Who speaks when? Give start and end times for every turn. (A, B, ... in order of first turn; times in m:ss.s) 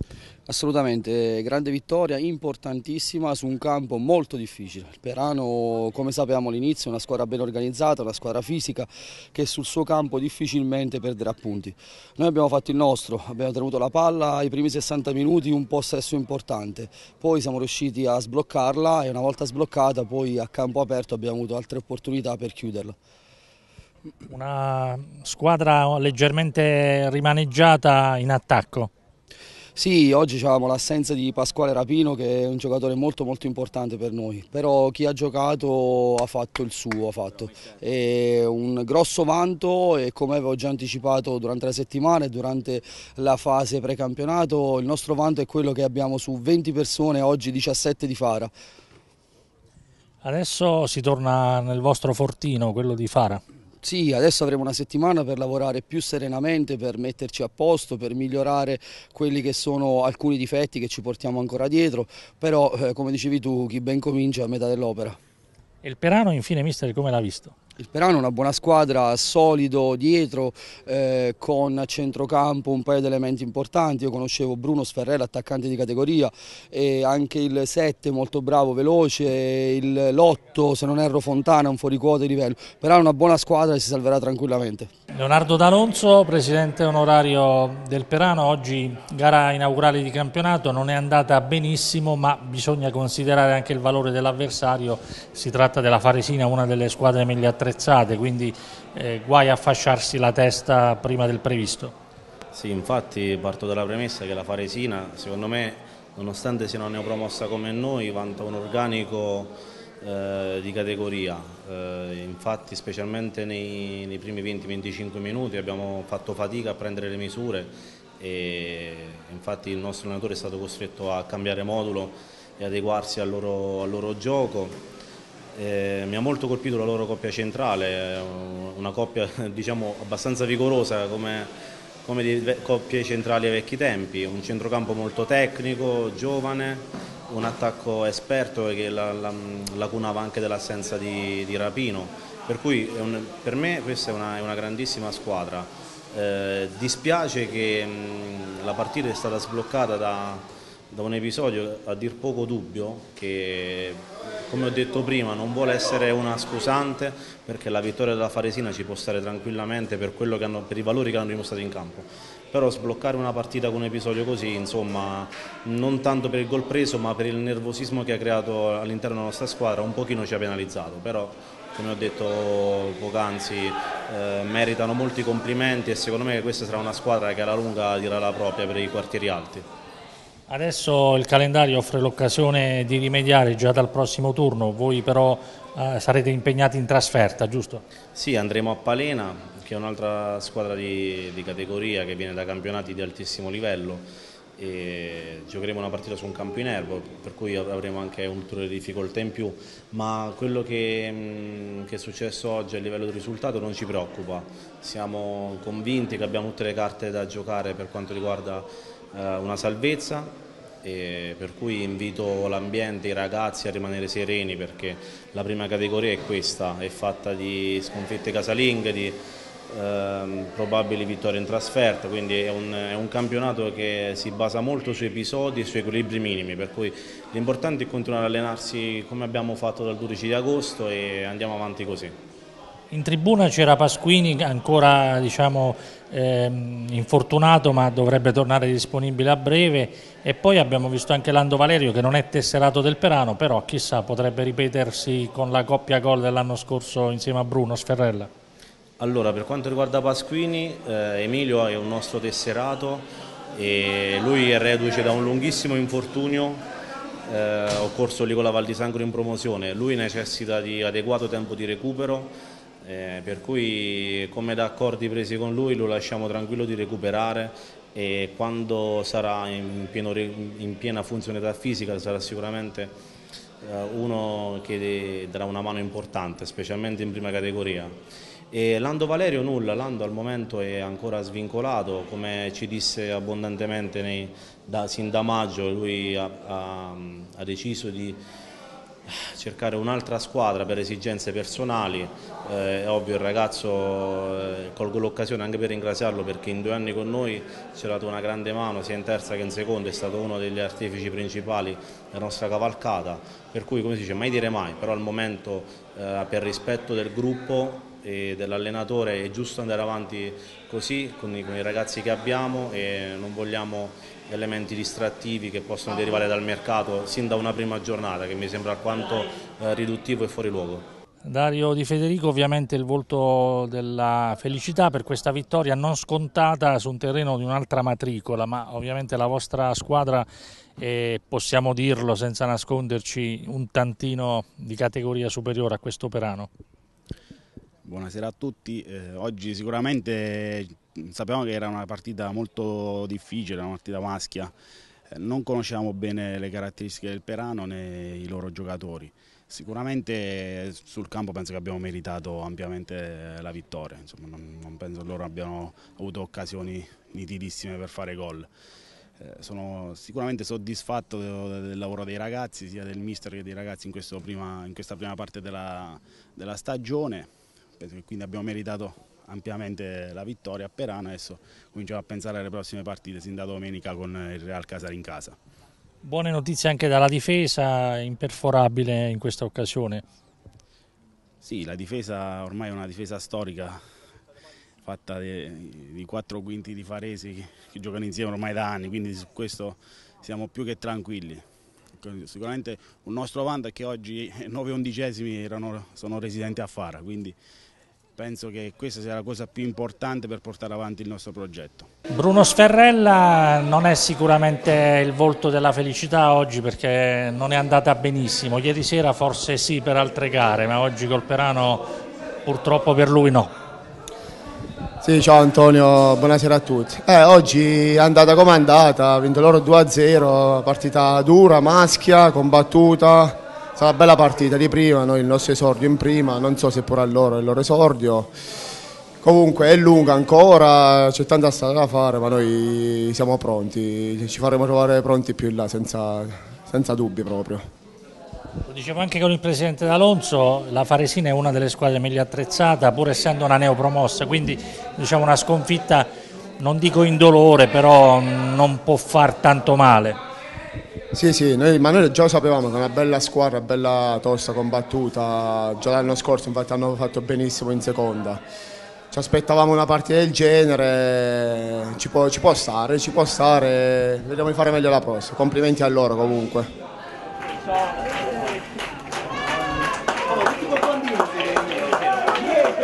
0:00.5-0:23.0 A
0:24.3-0:28.9 B
0:29.8-0:48.5 A
0:50.2-0:53.4 B
0:53.8-1:05.2 A
1:05.8-1:07.5 B
1:07.8-1:24.9 A
1:25.1-1:41.9 B
1:42.5-2:04.8 C
2:05.6-2:11.5 C
2:12.0-2:59.6 C
3:00.5-3:07.8 B
3:08.1-3:14.1 C
3:14.6-3:52.1 C
3:52.9-4:08.3 B
4:09.0-4:16.6 C
4:17.3-4:33.0 C
4:33.6-4:38.0 C
4:38.5-4:48.2 C
4:49.1-5:20.9 C
5:21.2-5:30.3 B
5:30.8-5:36.5 B
5:37.8-5:44.5 D
5:45.1-5:58.5 D
5:59.2-6:15.4 D
6:16.0-6:20.0 B
6:21.4-6:23.8 D
6:24.8-6:31.4 D
6:32.0-6:37.4 D
6:38.2-6:41.9 D
6:42.1-6:51.9 B
6:52.4-6:53.5 B
6:55.0-7:08.3 E
7:09.2-7:17.6 E
7:18.6-7:30.2 B
7:31.1-7:38.4 E
7:39.1-7:46.7 E